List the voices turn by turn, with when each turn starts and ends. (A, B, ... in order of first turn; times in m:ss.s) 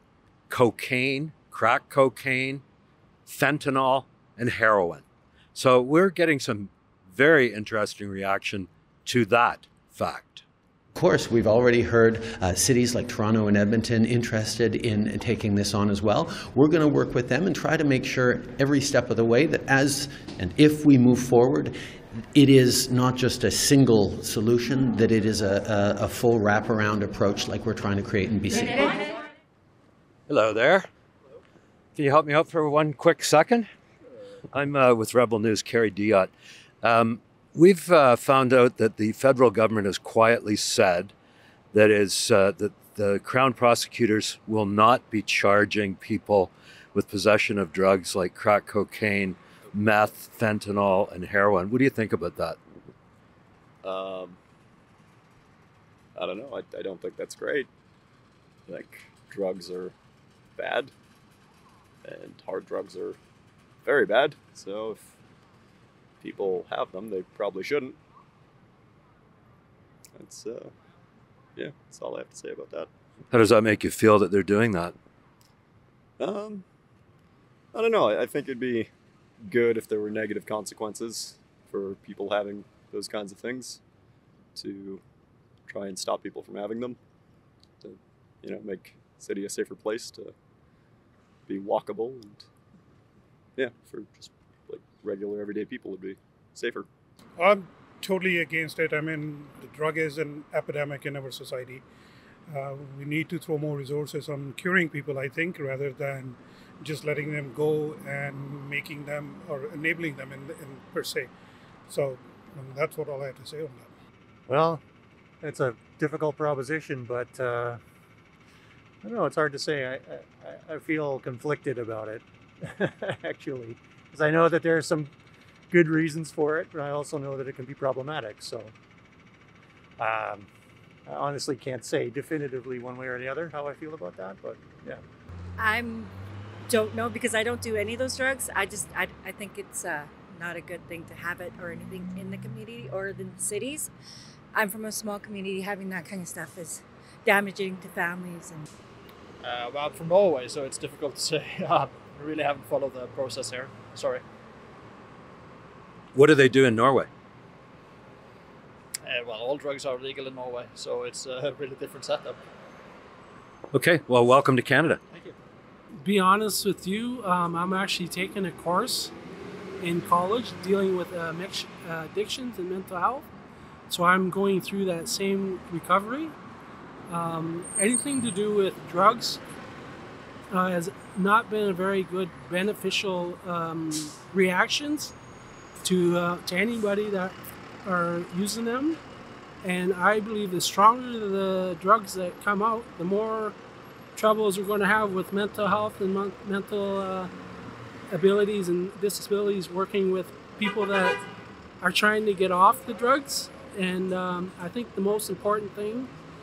0:00.5-0:02.6 A
0:03.2-0:05.0 A
0:05.5-0:10.4 A
0:10.9-0:29.0 B
0:30.3-0:30.9 A
0:31.9-0:33.7 A
0:34.5-0:36.3 A
0:36.8-0:41.1 A
0:41.7-0:52.6 A
0:53.8-0:54.4 C
0:56.2-0:57.7 C
0:58.7-0:59.9 C
1:00.6-1:00.9 C
1:02.0-1:03.2 C
1:03.8-1:05.1 C
1:06.2-1:08.0 C
1:10.2-1:10.7 C
1:11.6-1:12.9 C
1:13.3-1:14.9 A
1:16.2-1:16.6 C
1:17.7-1:18.9 C
1:19.4-1:23.8 C
1:24.6-1:25.0 C
1:25.7-1:27.0 C
1:27.8-1:30.3 C
1:31.5-1:32.4 C
1:33.6-1:36.9 C
1:37.4-1:41.8 D
1:42.5-1:51.3 D
1:51.9-1:53.9 D
1:54.5-1:54.8 E
1:55.4-1:57.8 E
1:59.0-2:05.1 E
2:05.7-2:08.7 E
2:10.0-2:10.5 E
2:11.0-2:15.0 E
2:15.6-2:16.1 F
2:16.7-2:23.9 F
2:24.5-2:28.6 F
2:29.4-2:34.2 G
2:36.1-2:37.1 A
2:39.0-2:42.4 G
2:43.7-2:45.0 A
2:46.0-2:49.1 H
2:49.8-2:53.3 H
2:53.9-2:56.3 H
2:57.1-2:59.4 H
3:00.5-3:05.1 H
3:05.8-3:09.0 H
3:09.6-3:13.5 H
3:14.1-3:17.3 H
3:18.1-3:21.2 H
3:21.8-3:26.1 H